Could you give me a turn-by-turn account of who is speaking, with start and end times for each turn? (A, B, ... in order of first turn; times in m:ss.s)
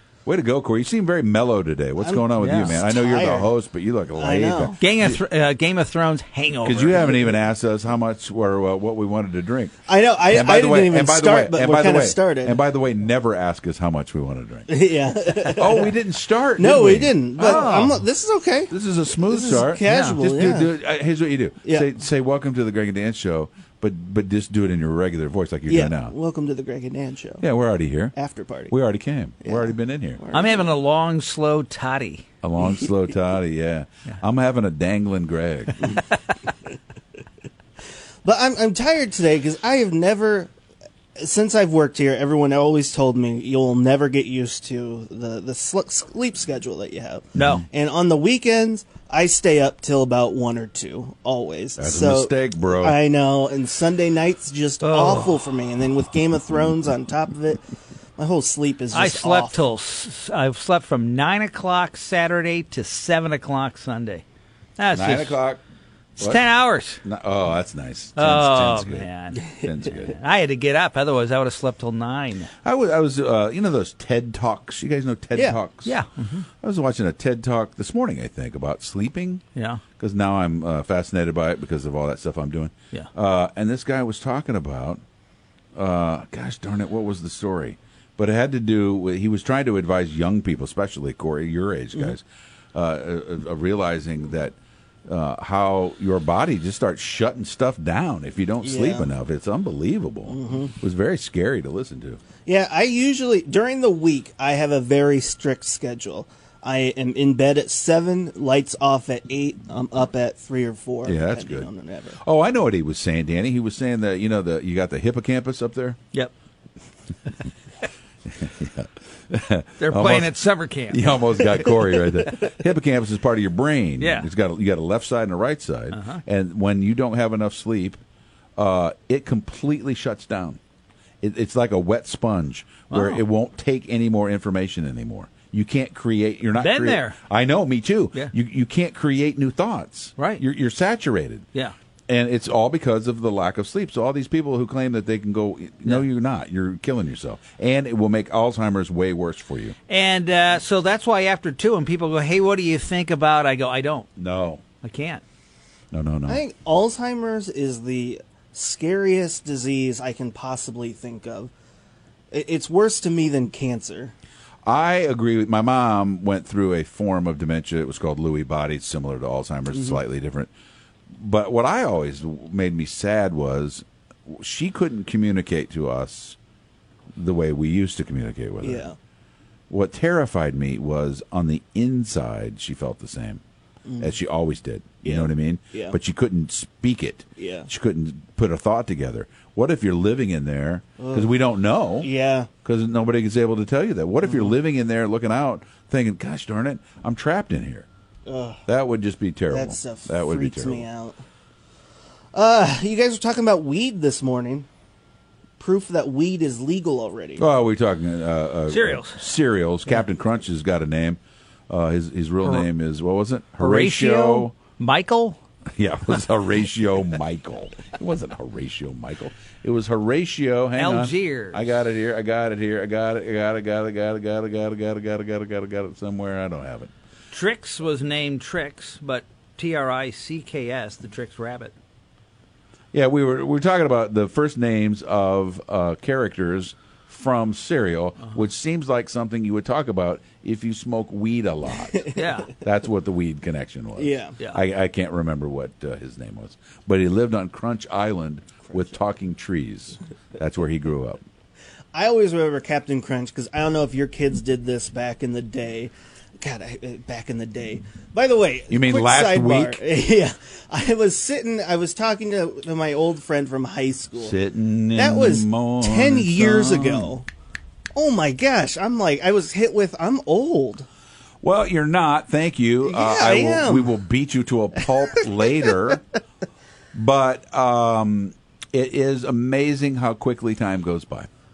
0:00.2-0:05.2 A
0:02.0-0:03.5 B
0:02.4-0:02.8 C
0:04.2-0:04.8 B
0:04.8-0:07.2 C
0:06.6-0:09.7 A
0:09.8-0:12.6 B
0:10.3-0:14.7 A
0:14.7-0:15.9 B
0:15.6-0:17.8 A
0:16.6-0:20.7 B
0:17.4-0:18.0 C
0:18.7-0:26.1 A
0:19.8-0:20.2 C
0:21.6-0:21.9 B
0:25.7-0:27.4 B
0:27.4-0:28.2 A
0:28.2-0:28.7 B
0:28.7-0:30.2 A
0:29.4-0:30.7 B
0:30.3-0:32.2 C
0:32.4-0:36.0 A
0:38.2-0:40.5 B
0:41.2-0:57.6 B
0:47.4-0:47.6 C
0:47.4-0:47.6 A
0:51.8-0:53.0 A
0:54.8-0:55.4 C
0:58.2-0:59.6 B
0:58.9-1:04.2 C
1:04.8-1:05.4 C
1:04.9-1:05.6 A
1:06.2-1:07.0 C
1:07.0-1:10.2 A
1:08.2-1:12.5 C
1:12.6-1:16.0 A
1:15.8-1:16.4 C
1:16.6-1:19.4 A
1:19.5-1:19.8 C
1:20.0-1:25.0 A
1:25.8-1:32.2 A
1:32.7-1:34.6 A
1:35.1-1:42.2 A
1:38.6-1:39.1 B
1:40.3-1:40.7 B
1:42.4-1:52.2 B
1:51.1-1:56.0 A
1:58.3-2:00.4 A
1:59.8-2:01.7 C
2:00.9-2:08.0 A
2:04.0-2:04.3 C
2:05.9-2:06.2 C
2:08.6-2:10.6 A
2:11.2-2:21.5 A
2:12.9-2:13.2 C
2:16.5-2:17.2 C
2:20.2-2:20.4 C
2:22.1-2:29.7 A
2:29.9-2:34.1 C
2:34.2-2:34.6 A
2:34.8-2:35.2 C
2:35.9-2:36.4 A
2:36.3-2:41.5 B
2:42.3-2:44.1 B
2:44.6-2:50.5 A
2:49.7-2:50.0 B
2:51.1-2:56.4 A
2:57.2-2:58.9 A
2:58.6-2:59.0 B
2:59.7-3:03.4 A
3:03.9-3:04.1 B
3:04.0-3:12.1 A
3:05.0-3:06.0 B
3:07.4-3:07.7 B
3:11.0-3:11.3 B
3:12.0-3:12.5 B
3:12.6-3:17.9 A
3:14.2-3:14.5 B
3:18.3-3:18.6 B
3:18.7-3:20.8 A
3:19.5-3:21.2 B
3:22.3-3:24.7 B
3:25.6-3:27.4 B
3:27.4-3:34.5 A
3:28.7-3:29.2 C
3:32.4-3:32.7 C
3:33.6-3:35.4 C
3:35.7-3:46.9 A
3:40.8-3:41.7 C
3:47.3-3:51.7 C
3:52.9-4:11.2 A
4:01.9-4:02.3 B
4:02.2-4:02.5 C
4:04.0-4:04.4 B
4:11.9-4:24.4 B
4:18.7-4:19.8 A
4:24.2-4:27.1 A
4:25.0-4:27.2 B
4:28.0-4:30.9 B
4:31.4-4:36.0 A
4:32.8-4:33.9 B
4:36.9-4:41.3 A